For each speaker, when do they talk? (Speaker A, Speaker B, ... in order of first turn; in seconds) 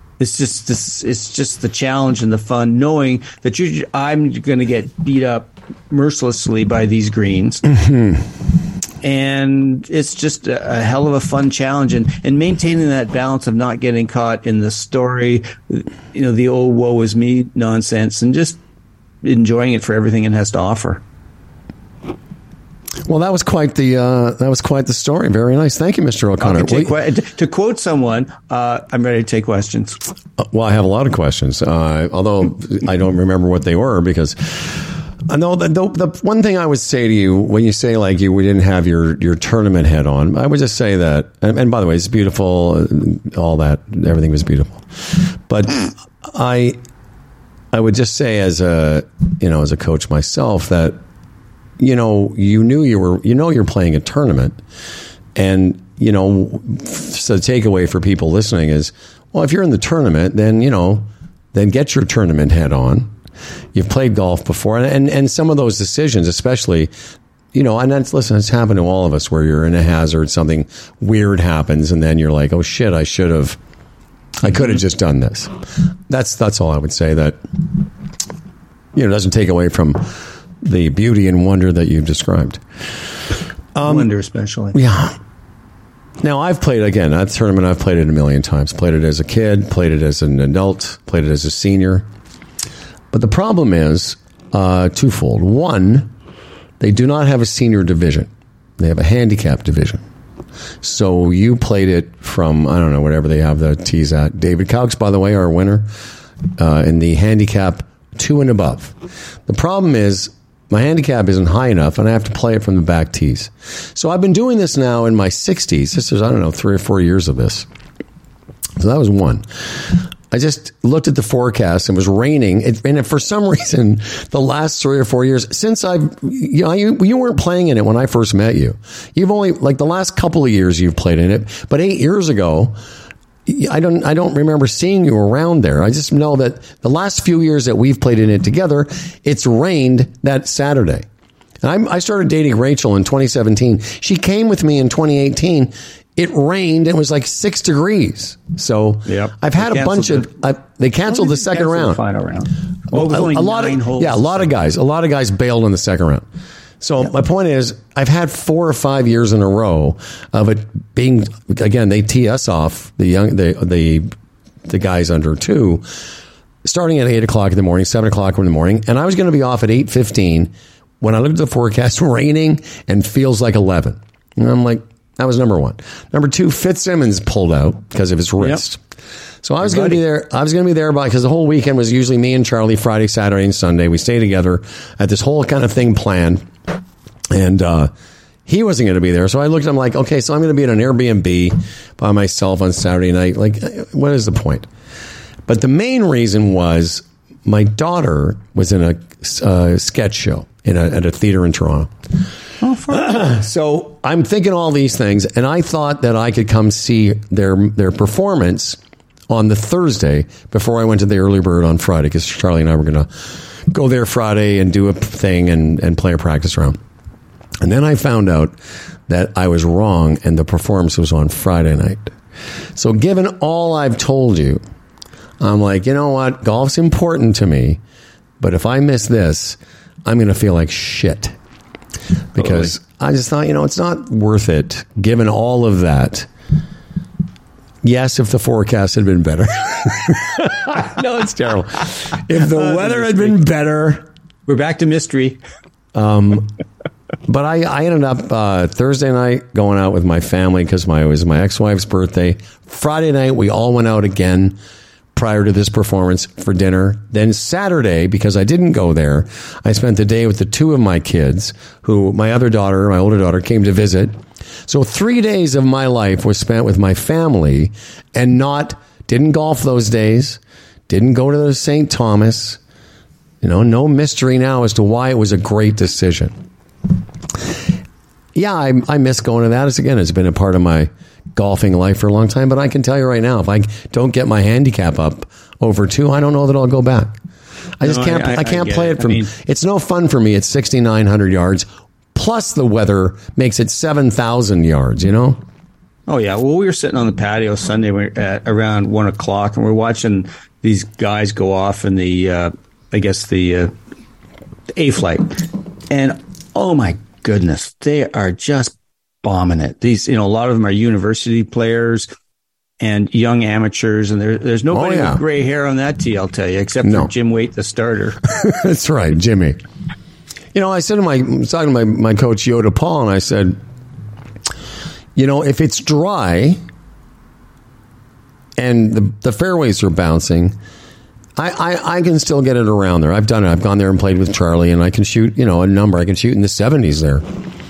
Speaker A: 0.2-7.7, 9.0-18.6, 19.2-21.0, 26.4-30.0, 83.8-84.8, 149.1-150.3, 151.1-154.5, 179.6-180.0, 202.6-203.2, 242.4-243.4, 244.4-245.4, 287.8-289.3, 296.1-303.7, 304.8-312.1, 312.8-318.2
Speaker B: 23.1-26.9, 30.4-46.8, 47.7-51.0, 51.8-54.6, 55.4-63.1, 63.7-66.9, 67.5-73.6, 74.4-75.5, 76.1-77.4, 78.9-80.1, 80.6-82.6, 83.7-84.1, 84.7-85.2, 86.2-92.0, 93.1-96.1, 96.8-100.0, 100.8-105.8, 106.6-108.9, 109.5-117.7, 118.8-132.7, 133.4-141.0, 141.6-152.0, 152.9-156.2, 156.8-164.1, 164.7-165.8, 166.6-178.8, 179.4-186.4, 187.3-187.9, 188.4-194.7, 195.5-201.9, 202.9-213.1, 213.7-216.8, 217.6-218.6, 219.1-222.1, 222.8-224.6, 225.4-227.8, 228.4-231.3, 232.3-236.3, 237.8-244.1, 245.9-246.5, 247.3-254.6, 255.1-264.1, 264.7-272.6, 273.4-276.3, 278.3-287.1, 287.8-295.4, 314.7-315.2, 316.8-317.1, 318.3-319.6, 320.5-323.6, 325.1-326.6, 328.6-330.6, 331.4-337.2